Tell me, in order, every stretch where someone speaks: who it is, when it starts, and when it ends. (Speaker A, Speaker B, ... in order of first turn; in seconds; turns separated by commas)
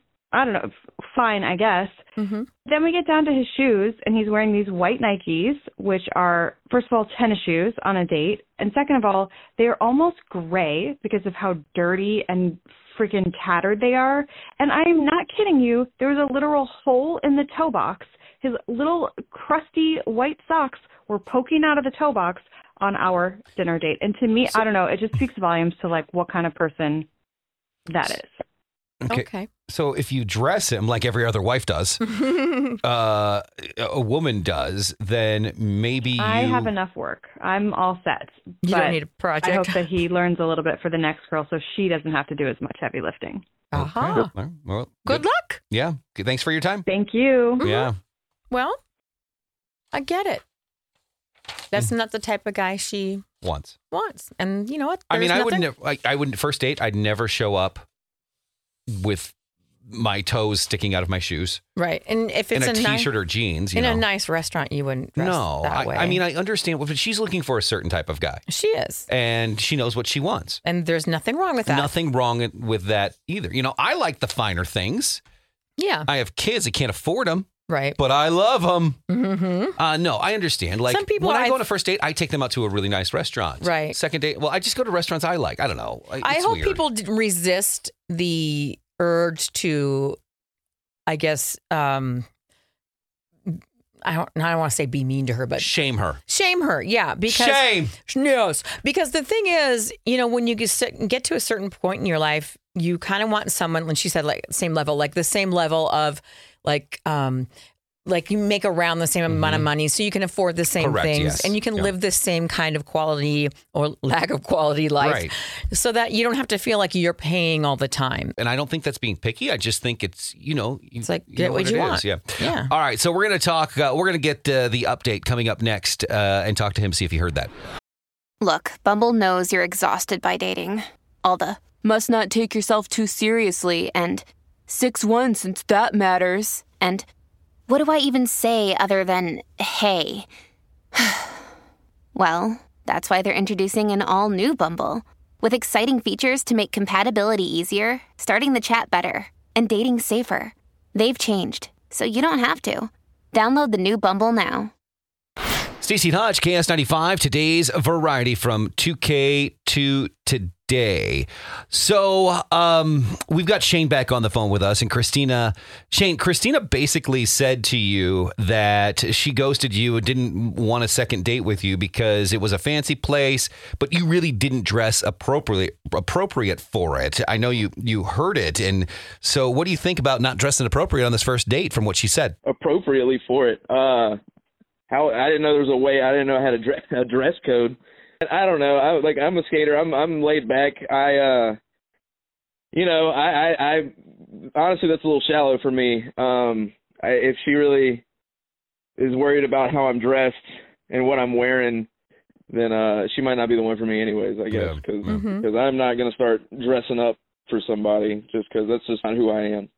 Speaker A: 0.3-2.1, Speaker B: 2.2-2.5, Speaker A: 2.6-27.1, Speaker A: 27.9-28.4, Speaker C: 29.0-36.7, Speaker B: 29.1-29.5, Speaker B: 32.2-32.6, Speaker A: 36.2-43.6, Speaker B: 38.6-39.9, Speaker B: 43.7-44.3, Speaker C: 43.7-46.9, Speaker B: 45.0-45.6, Speaker A: 46.9-47.7, Speaker C: 47.6-48.0, Speaker B: 47.6-47.9, Speaker B: 48.5-48.8, Speaker B: 49.9-50.4, Speaker B: 51.7-53.2, Speaker C: 53.4-53.8, Speaker B: 53.9-55.7, Speaker C: 55.1-57.8, Speaker C: 58.9-59.3, Speaker C: 59.9-61.6, Speaker B: 61.8-63.1, Speaker C: 62.5-64.0, Speaker B: 63.7-66.2, Speaker C: 65.2-68.4, Speaker B: 68.5-69.1, Speaker C: 69.1-70.6, Speaker B: 70.6-71.9, Speaker C: 71.6-75.2, Speaker B: 75.8-76.1, Speaker C: 76.0-79.0, Speaker B: 77.7-78.0, Speaker B: 79.1-79.8, Speaker C: 79.8-86.8, Speaker B: 80.8-81.7, Speaker B: 83.6-84.0, Speaker B: 86.2-90.2, Speaker B: 91.1-92.3, Speaker B: 93.5-95.7, Speaker C: 95.6-96.2, Speaker B: 96.3-107.5, Speaker C: 97.3-97.9, Speaker B: 108.0-118.3, Speaker C: 109.3-109.7, Speaker C: 110.8-111.9, Speaker C: 115.0-115.3, Speaker C: 118.4-127.5, Speaker B: 121.0-122.7, Speaker D: 128.4-137.0, Speaker D: 137.7-140.3, Speaker D: 140.9-141.4, Speaker D: 142.1-154.7, Speaker C: 155.8-182.3, Speaker E: 182.4-184.2, Speaker E: 184.9-191.6, Speaker E: 192.7-193.9, Speaker E: 194.5-198.0, Speaker E: 199.0-201.9, Speaker E: 202.5-209.7, Speaker C: 204.5-205.2, Speaker B: 205.1-205.5